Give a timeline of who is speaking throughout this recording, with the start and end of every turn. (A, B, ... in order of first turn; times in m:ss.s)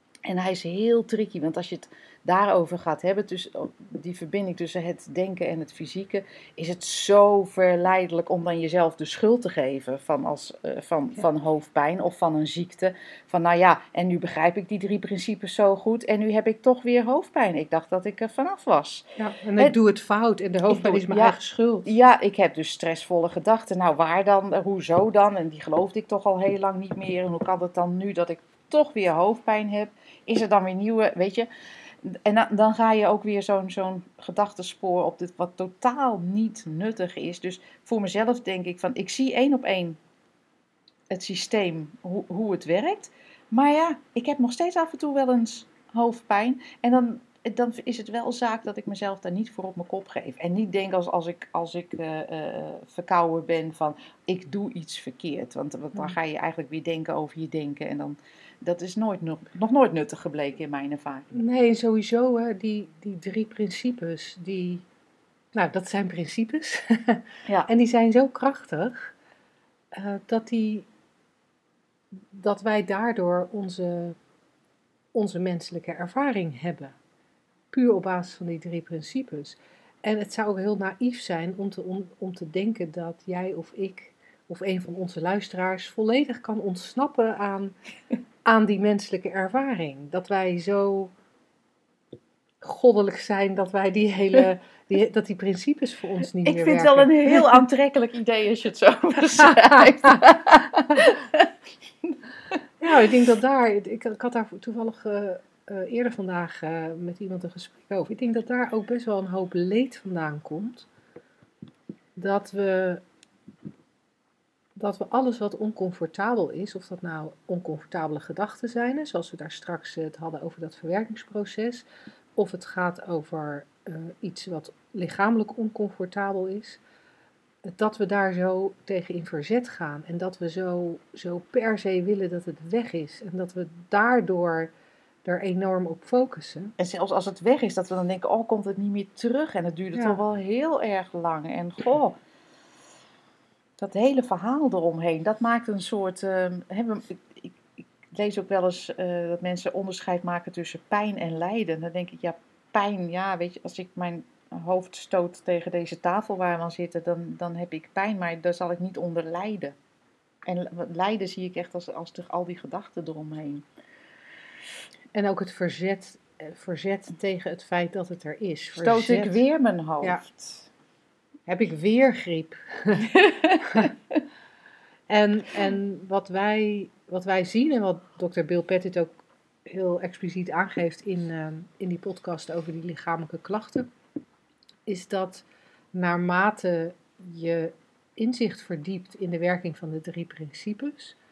0:00.2-0:19.0 A
0:19.2-0:21.9 B
0:20.7-0:31.5 A
0:32.0-0:40.0 A
0:41.1-1:01.3 A
1:01.3-1:04.8 B
1:05.5-1:09.1 B
1:09.9-1:10.9 B
1:12.3-1:14.2 B
1:15.1-1:17.0 B
1:17.7-1:27.7 B
1:28.4-1:31.1 B
1:32.6-1:37.4 B
1:36.4-1:41.5 A
1:42.0-1:42.6 A
1:42.8-1:50.9 B
1:52.2-1:53.0 B
1:54.8-2:01.8 B
2:02.4-2:06.8 B
2:07.6-2:14.7 B
2:15.2-2:16.7 B
2:16.8-2:22.2 A
2:23.8-2:39.7 A
2:40.4-2:43.6 A
2:45.1-2:49.4 B
2:48.8-2:50.7 A
2:51.5-2:53.1 B
2:53.1-2:53.9 A
2:53.6-2:53.9 B
2:55.1-3:03.9 B
3:04.9-3:11.2 B